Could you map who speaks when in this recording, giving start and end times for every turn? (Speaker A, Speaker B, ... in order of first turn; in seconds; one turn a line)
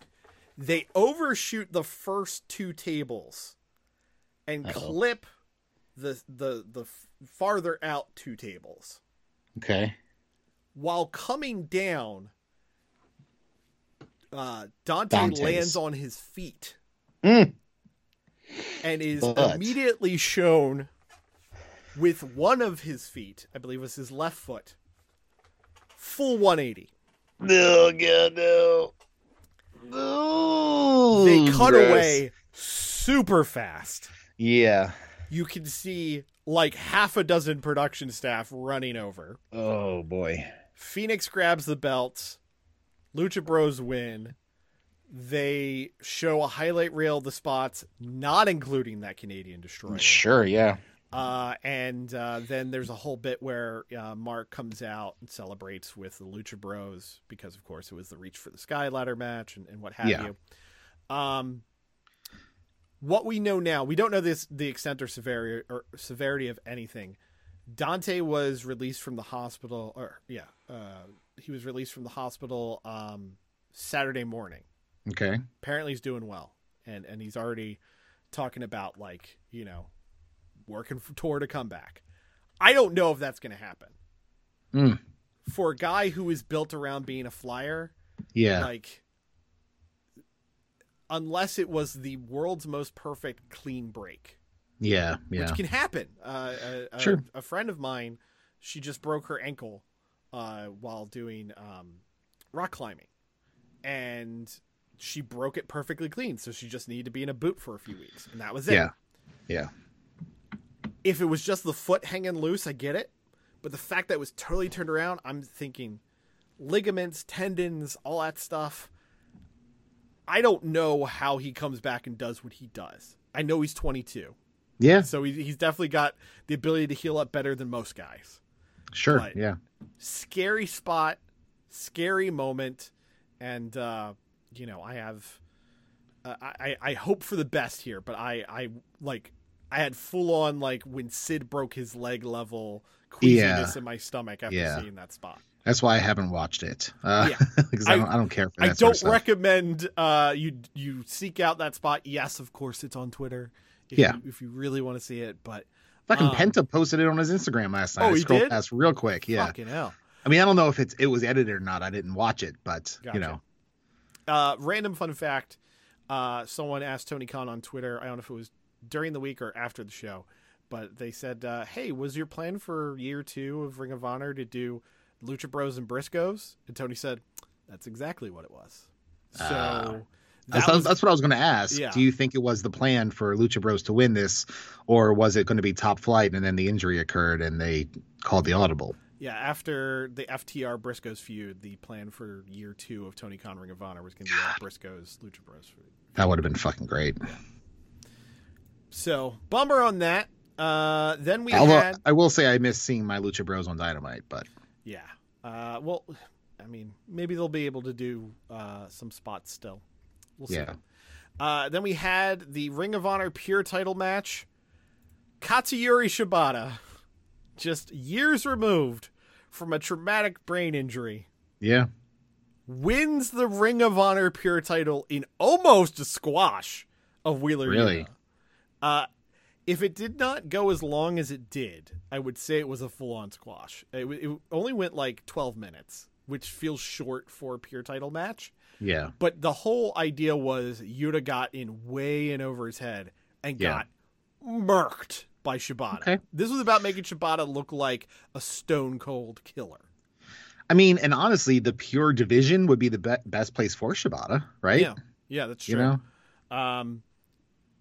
Speaker A: 0.6-3.6
Speaker A: 4.5-5.3
Speaker B: 4.6-5.0
Speaker A: 6.0-9.0
Speaker B: 9.6-10.0
Speaker A: 10.8-12.3
Speaker A: 14.3-16.8
Speaker B: 15.1-15.8
Speaker B: 17.2-17.6
Speaker A: 18.8-20.9
Speaker B: 19.2-19.8
Speaker A: 21.9-24.8
Speaker A: 26.0-26.9
Speaker B: 27.4-28.9
Speaker B: 29.9-32.2
Speaker A: 31.1-34.1
Speaker B: 34.4-35.0
Speaker A: 35.3-39.4
Speaker B: 39.5-40.5
Speaker A: 40.8-42.4
Speaker A: 43.1-44.4
Speaker A: 45.1-50.2
Speaker B: 49.9-50.8
Speaker A: 51.1-60.4
Speaker B: 60.0-60.3
Speaker A: 61.1-61.6
Speaker A: 63.0-67.2
Speaker A: 67.7-74.7
Speaker B: 75.1-75.4
Speaker A: 75.6-77.8
Speaker A: 78.3-79.9
Speaker A: 80.7-82.0
Speaker A: 82.6-84.0
Speaker B: 84.7-85.0
Speaker A: 85.5-87.9
Speaker B: 88.4-88.7
Speaker A: 88.6-89.0
Speaker A: 91.1-94.4
Speaker B: 94.8-95.6
Speaker A: 95.3-102.0
Speaker A: 102.5-103.1
Speaker A: 103.8-108.9
Speaker A: 111.0-116.0
Speaker A: 116.6-118.9
Speaker A: 120.3-124.4
Speaker B: 124.8-125.1
Speaker A: 125.0-128.4
Speaker B: 128.9-129.6
Speaker A: 129.1-129.4
Speaker A: 130.0-131.2
Speaker A: 131.7-135.4
Speaker A: 136.2-145.4
Speaker B: 143.2-143.8
Speaker B: 144.5-144.9
Speaker B: 145.7-149.2
Speaker A: 147.2-156.6
Speaker B: 153.9-154.2
Speaker B: 156.1-159.5
Speaker A: 158.0-158.6
Speaker A: 159.3-160.0
Speaker B: 160.2-163.4
Speaker A: 163.0-163.4
Speaker A: 164.3-165.6
Speaker A: 166.1-181.0
Speaker B: 179.4-189.0
Speaker A: 181.7-182.1
Speaker A: 189.2-195.9
Speaker B: 196.2-197.2
Speaker A: 198.9-202.0
Speaker B: 201.5-204.5
Speaker A: 204.8-209.8
Speaker A: 210.4-210.8
Speaker B: 210.5-210.8
Speaker A: 211.4-214.5
Speaker A: 215.4-216.8
Speaker A: 217.6-221.3
Speaker B: 221.6-221.9
Speaker A: 222.7-228.1
Speaker B: 227.7-228.1
Speaker A: 228.8-229.1
Speaker A: 229.7-238.5
Speaker B: 238.8-239.1
Speaker A: 239.2-243.9
Speaker A: 244.4-249.8
Speaker B: 245.9-246.2
Speaker B: 250.7-254.9
Speaker A: 254.7-256.0
Speaker B: 255.7-256.0
Speaker A: 256.5-257.0